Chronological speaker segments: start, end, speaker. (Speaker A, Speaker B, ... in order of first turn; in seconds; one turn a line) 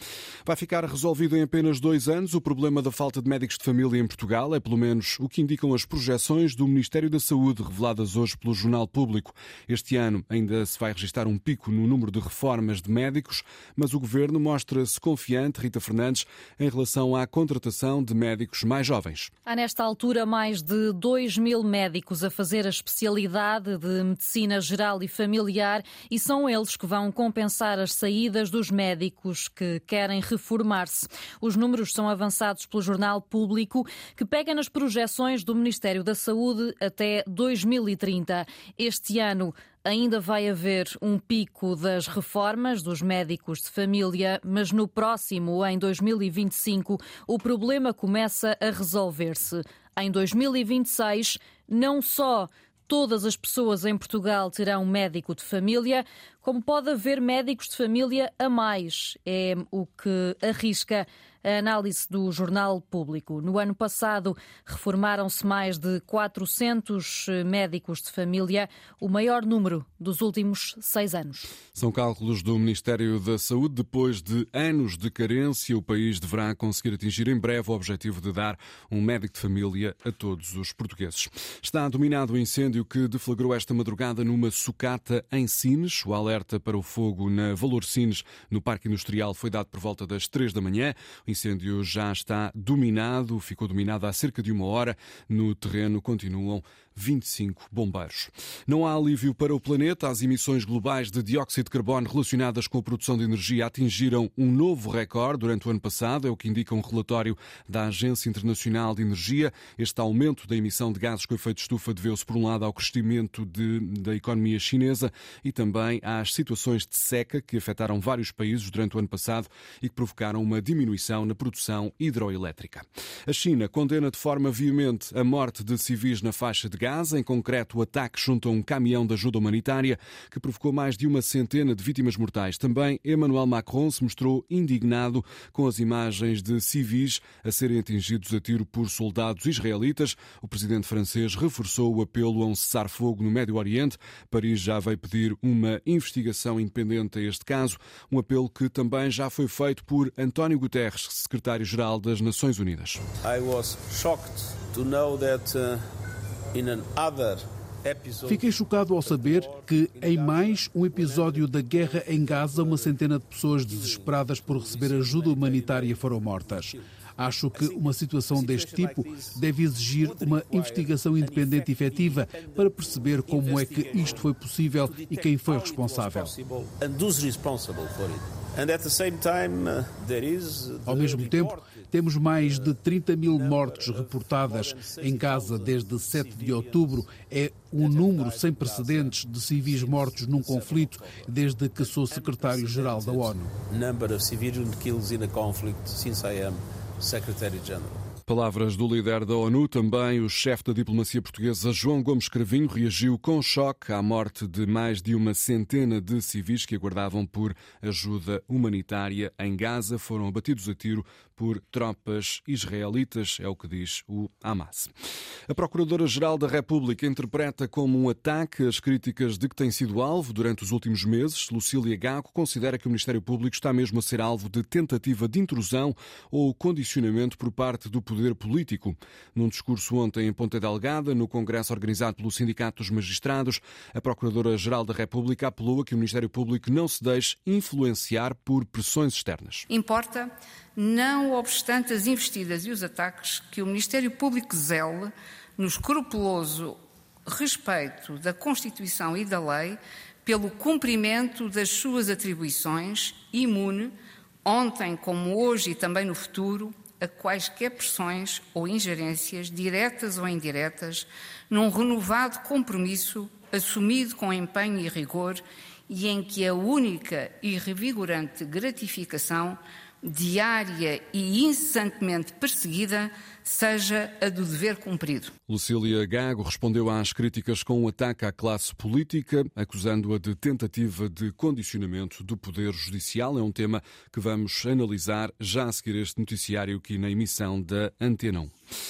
Speaker A: 0.5-19.3
Speaker B: 19.4-71.5
Speaker A: 71.7-153.0
Speaker C: 153.2-155.8
Speaker C: 156.5-163.1
Speaker D: 158.3-176.3
Speaker C: 163.7-166.9
Speaker C: 167.5-169.4
Speaker C: 169.9-187.0
Speaker D: 180.8-193.5
Speaker C: 187.8-198.0
Speaker A: 198.2-214.9
Speaker A: 215.5-239.7
Speaker E: 239.7-253.9
Speaker E: 254.4-275.3
Speaker A: 275.5-288.5